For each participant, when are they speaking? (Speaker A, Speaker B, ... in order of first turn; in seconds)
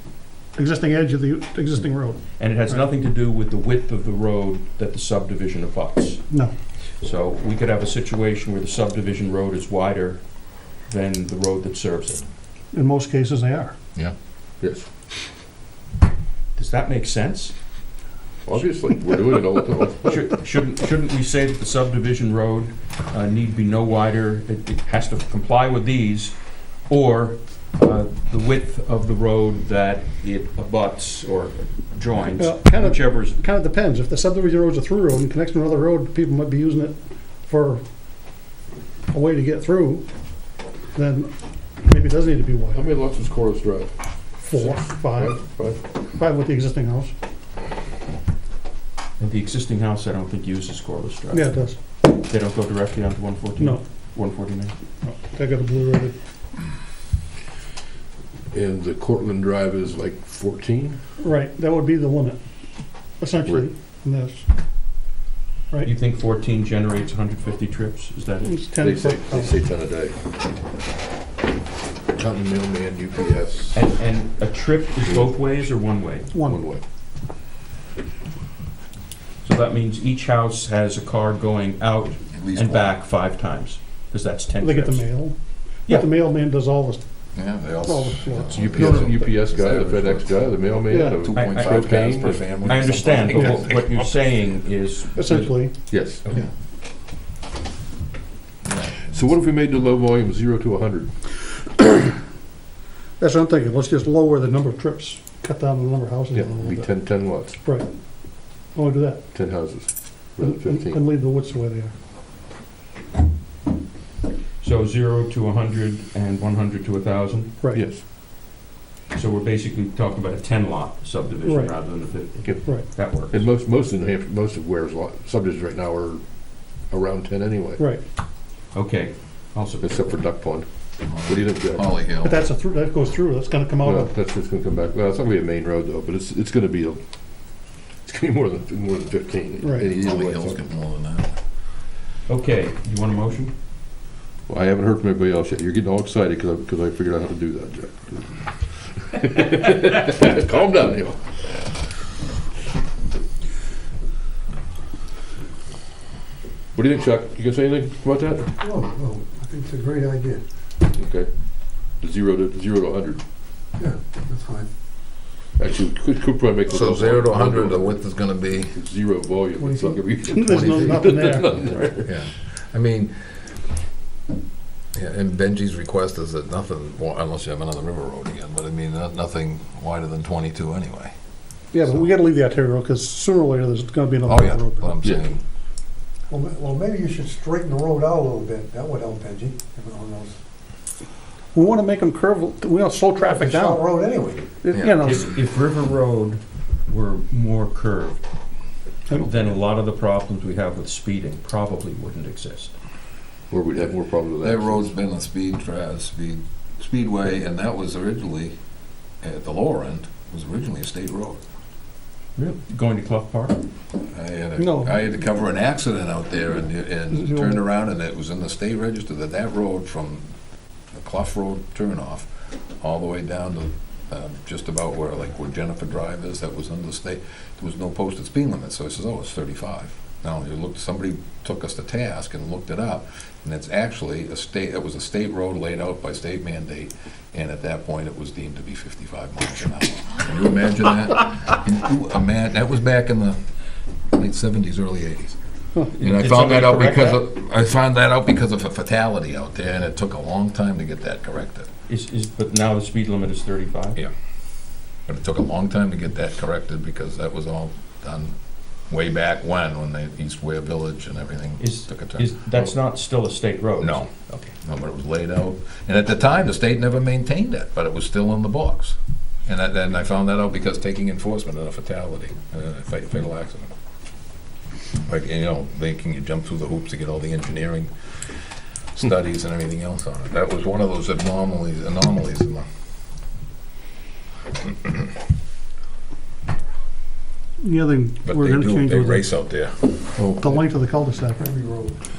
Speaker A: 0.5-2.8, 12.7-13.7, 32.4-37.8, 39.1-40.0, 40.9-41.3, 41.8-43.0, 44.4-47.1, 51.3-51.8, 55.0-56.1, 61.2-62.4, 63.2-64.4, 68.4-69.6, 76.3-76.6, 84.6-85.3, 85.9-87.0, 87.8-89.1, 90.9-91.3, 93.3-93.6, 95.2-95.9, 103.2-107.9, 108.7-109.2, 110.4-111.9, 117.6-117.9, 121.4-121.7, 122.6-122.9, 132.2-134.2, 139.6-139.9, 169.8-171.7, 181.7-184.9, 191.5-193.9, 194.6-195.3, 214.6-214.9, 217.1-217.7, 287.6-289.2, 290.4-291.5
Speaker B: 2.4-6.2, 7.0-10.2, 10.8-12.2, 16.6-17.5, 20.0-26.3, 26.9-33.4, 49.2-51.5, 52.0-54.7, 65.8-68.5, 73.7-76.3, 79.4-85.1, 91.3-95.5, 114.6-117.5, 119.1-123.4, 128.7-130.1, 142.3-143.5, 194.8-198.2, 199.1-202.7, 212.4-213.6, 245.9-247.2, 251.9-254.0, 261.6-264.5
Speaker C: 14.6-14.8, 18.4-20.2, 42.7-43.9, 44.5-45.8, 58.5-61.0, 68.8-70.2, 72.1-73.9, 75.0-75.3, 76.4-76.8, 88.5-92.5, 95.9-96.3, 99.0-101.1, 106.3-107.6, 109.3-111.0, 117.7-118.0, 122.4-126.2, 126.9-127.8, 129.8-130.7, 131.2-131.9, 133.8-137.0, 138.1-140.6, 144.5-151.7, 156.7-158.6, 160.9-161.3, 162.0-163.2, 165.6-168.0, 168.6-172.1, 203.5-204.9, 290.1-290.6
Speaker D: 82.3-82.9, 87.3-94.1, 98.6-99.2, 131.1-132.4, 139.9-141.3, 166.7-168.8, 172.0-173.4, 174.9-181.1, 184.2-185.4, 204.4-208.5, 209.2-211.4, 214.0-220.2, 220.9-222.3, 222.8-243.4, 244.1-245.4, 246.0-251.7, 255.1-258.3, 258.9-262.3, 263.8-273.7, 275.1-277.9, 278.9-282.6, 288.2-290.2
Speaker E: 158.6-160.4, 163.8-164.7, 169.6-169.9, 186.3-190.3, 193.2-194.6, 291.4-291.9